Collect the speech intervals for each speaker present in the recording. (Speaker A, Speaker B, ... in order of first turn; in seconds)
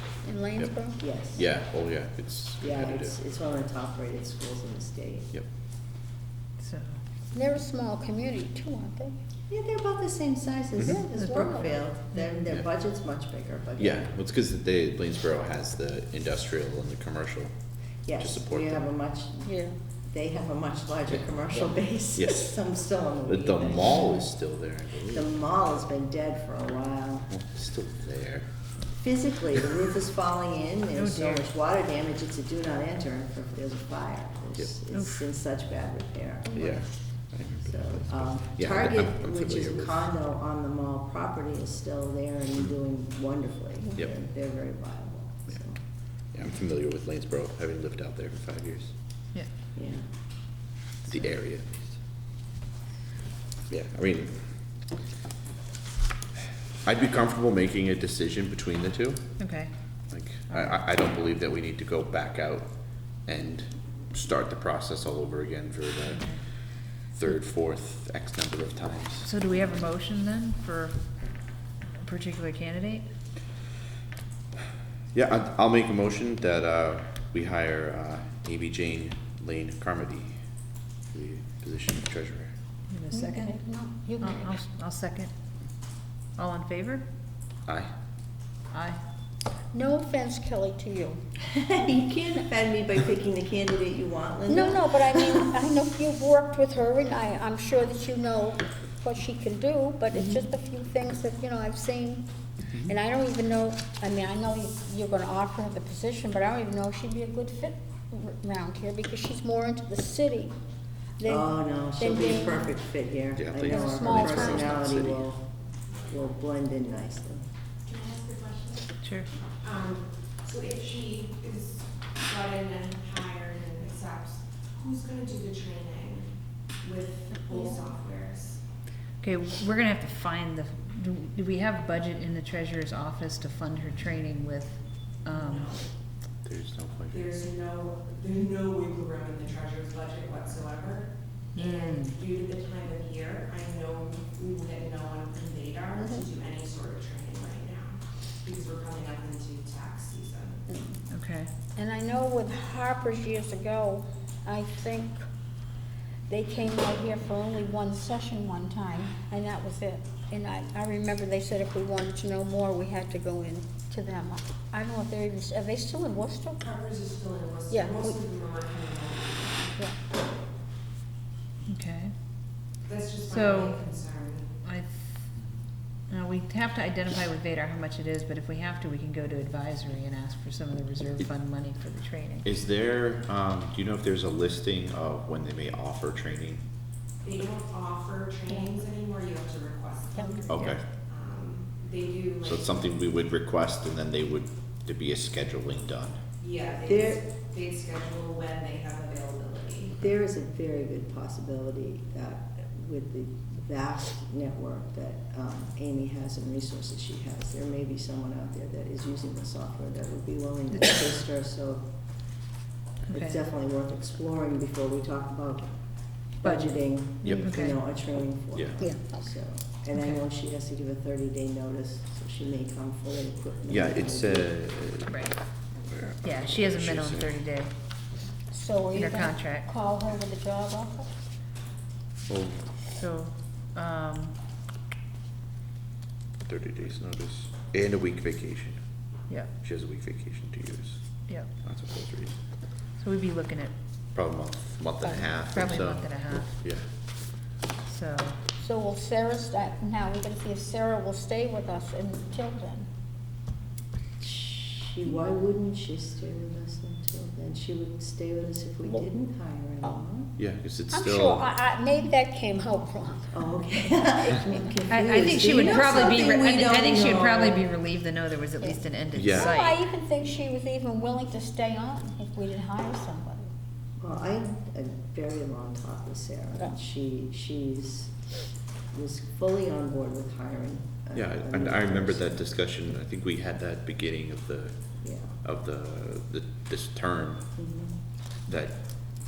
Speaker A: 0.2-1.0, 7.3-9.2, 10.8-11.7, 19.4-19.7, 83.1-84.6, 89.7-91.2, 94.5-102.3, 102.8-110.5, 111.2-112.7, 113.6-114.8, 146.0-146.2, 150.7-151.0, 151.7-155.2, 156.3-166.7, 167.7-168.2, 218.8-219.2, 228.5-231.1, 248.6-252.9, 260.9-263.4, 269.3-273.5
Speaker B: 1.0-1.5, 2.6-5.3, 9.5-14.1, 18.1-19.5, 20.1-24.2, 25.1-27.3, 29.0-36.8, 37.7-45.8, 49.8-50.0, 91.5-95.5, 111.2-115.5, 116.0-117.4, 196.9-197.2, 199.9-211.9, 213.1-224.5, 254.2-260.3, 263.3-267.6, 274.0-278.1, 278.9-282.4, 285.0-285.3, 287.6-287.9
Speaker C: 1.3-3.1, 13.8-17.5, 18.2-18.9, 22.1-22.5, 23.3-25.3, 27.3-28.5, 36.5-40.1, 46.3-48.9, 51.1-51.8, 53.7-54.5, 56.8-59.3, 60.1-62.7, 63.2-66.3, 67.1-69.3, 75.1-80.3, 81.1-82.5, 113.3-115.3, 136.4-137.2, 182.4-186.6, 190.5-190.8, 192.4-196.2, 217.2-217.5, 218.5-218.8, 223.7-225.3, 225.8-227.3, 232.3-232.7, 236.4-238.8, 239.6-241.0, 241.6-242.3, 244.1-246.8, 260.4-261.4, 269.1-269.5, 281.1-284.8, 285.4-287.5, 288.5-288.8
Speaker D: 6.6-6.9, 30.9-31.4, 59.4-59.7, 60.5-60.8, 66.1-66.4, 69.2-71.0, 72.0-73.0, 82.9-83.6, 84.2-85.3, 86.3-87.0, 88.7-89.0, 119.0-119.3, 129.2-135.7, 141.5-142.2, 151.1-151.5, 171.7-172.1, 173.3-173.8, 174.6-175.1, 176.1-182.5, 210.7-211.0, 213.1-213.4, 216.4-217.8, 225.1-225.4, 226.2-227.7, 228.9-229.7, 232.9-234.3, 243.0-243.7, 245.0-246.6, 247.9-248.4, 264.9-269.8
Speaker E: 117.9-118.9, 119.6-126.3, 126.8-128.6, 135.3-135.9, 137.1-150.6, 166.6-169.7, 172.9-174.5, 187.2-192.6, 196.4-199.9